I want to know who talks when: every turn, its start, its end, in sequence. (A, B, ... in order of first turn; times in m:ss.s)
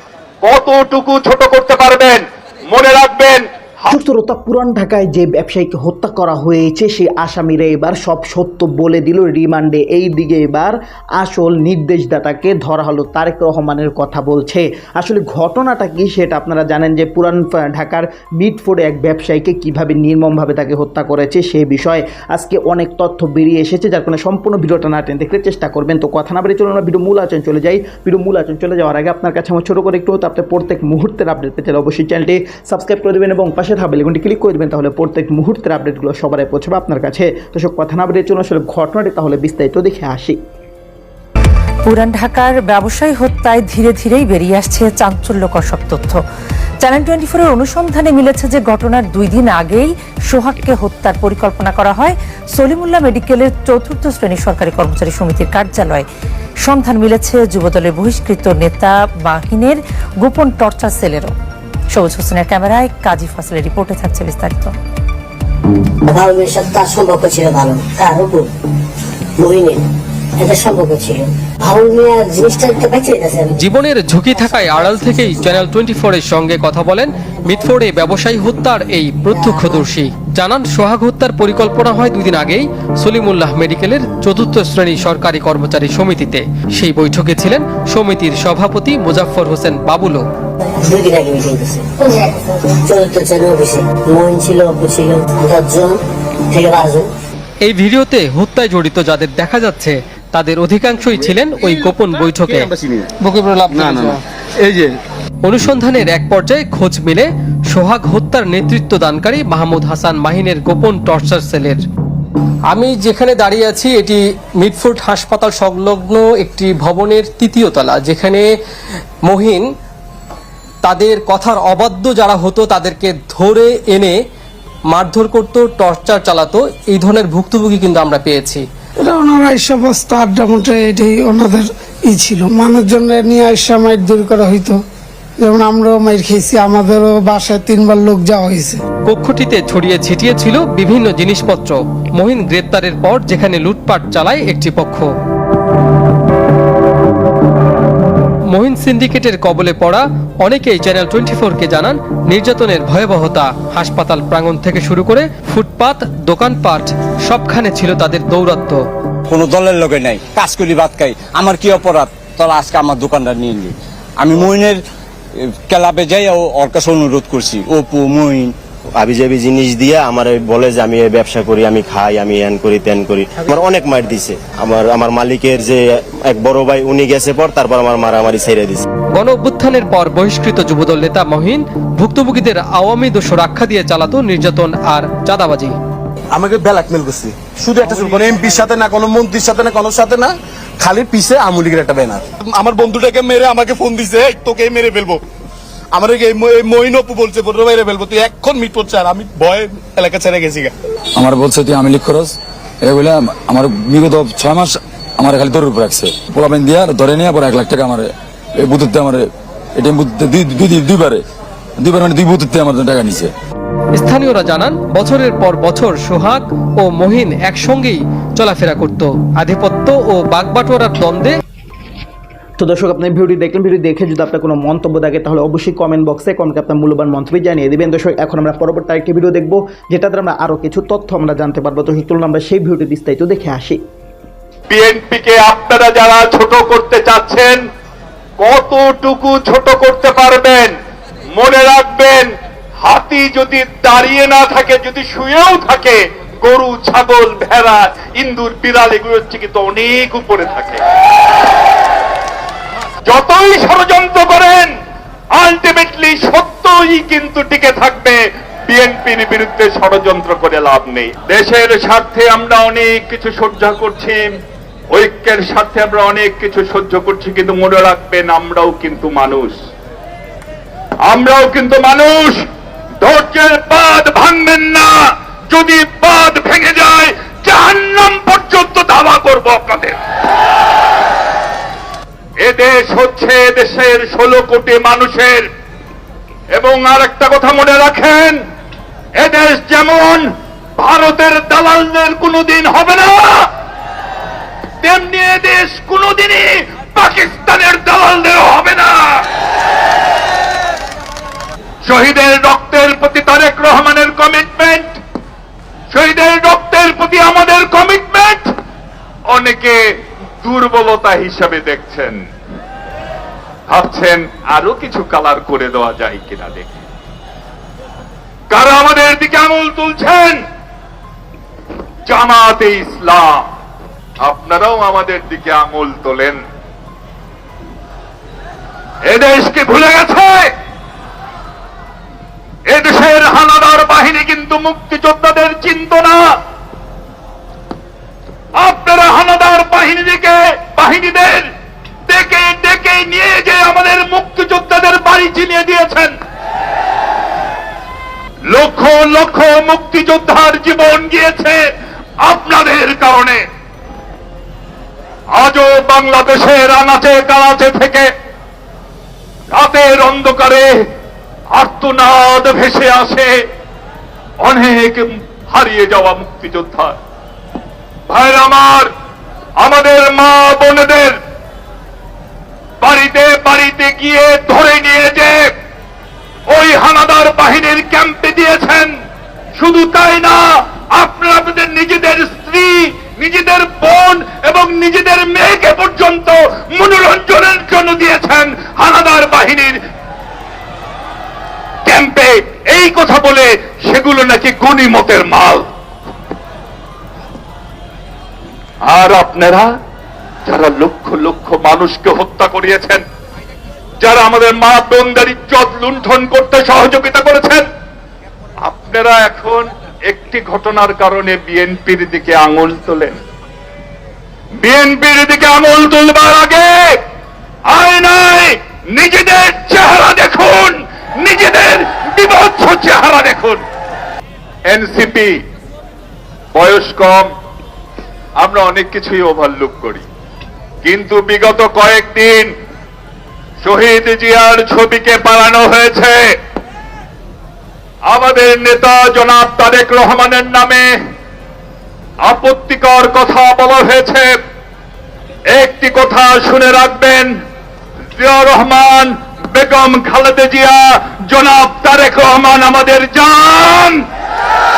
0:00.4-0:03.9 A
0:03.9-0:40.4 B
0:41.8-0:46.2 C
0:46.8-0:56.0 C
0:56.6-1:01.3 C
1:01.9-1:04.7 C
1:06.0-1:08.5 D
1:09.4-1:09.8 D
1:10.4-1:13.6 D
1:13.6-1:30.2 E
1:19.4-1:19.8 D
1:30.8-1:37.1 D
1:37.6-1:42.7 E
1:41.6-1:42.0 F
1:43.2-1:44.2 E
1:43.7-1:44.9 G
1:45.4-1:51.8 E
1:52.7-1:58.4 E
1:59.2-1:59.6 E
2:00.8-2:04.1 E
2:04.9-2:08.6 E
2:09.0-2:14.8 H
2:15.4-2:18.8 H
2:19.1-2:25.1 E
2:28.5-2:38.8 E
2:39.3-2:44.8 F
2:45.6-2:48.5 F
2:49.0-2:55.7 I
2:56.3-2:58.8 I
2:59.2-3:05.7 E
3:06.3-3:15.2 G
3:15.9-3:20.7 G
3:21.2-3:31.2 J
3:31.8-3:33.3 J
3:34.0-3:41.4 E
3:42.6-3:53.8 B
3:54.7-3:57.6 A
3:58.4-4:00.7 A
4:01.3-4:10.8 A
4:13.1-4:14.7 A
4:15.3-4:24.4 A
4:24.9-4:29.6 A
4:31.0-4:32.4 A
4:33.0-4:35.0 A
4:35.5-4:40.0 A
4:42.4-4:45.4 A
4:46.5-4:48.4 A
4:49.2-4:53.5 A
4:54.8-4:59.3 A
5:01.8-5:05.0 A
5:05.9-5:08.5 A
5:09.3-5:09.8 A
5:10.4-5:12.2 A
5:13.7-5:16.8 A
5:18.5-5:20.4 A
5:22.0-5:23.5 A
5:24.2-5:26.4 A
5:29.0-5:30.5 A
5:32.7-5:36.2 A
5:38.6-5:41.5 A
5:42.1-5:46.2 A
5:48.5-5:51.7 A
5:52.2-5:53.4 A
5:55.3-5:58.1 A
5:59.5-6:00.9 A
6:01.5-6:03.4 A
6:04.4-6:07.0 A
6:08.1-6:08.9 A
6:09.6-6:11.2 A
6:12.8-6:15.5 A
6:16.5-6:19.0 A
6:19.6-6:29.8 A
6:31.8-6:35.7 A
6:38.8-6:39.7 A
6:40.4-6:43.0 A
6:44.0-6:47.7 A
6:48.6-6:53.2 A
6:54.6-6:57.0 A
6:57.7-7:03.6 A
7:04.7-7:05.4 A
7:06.5-7:07.3 A
7:08.4-7:10.0 A
7:10.8-7:12.5 A
7:13.6-7:16.2 A
7:18.1-7:20.9 A
7:22.2-7:24.3 A
7:25.5-7:27.3 A
7:28.2-7:34.0 A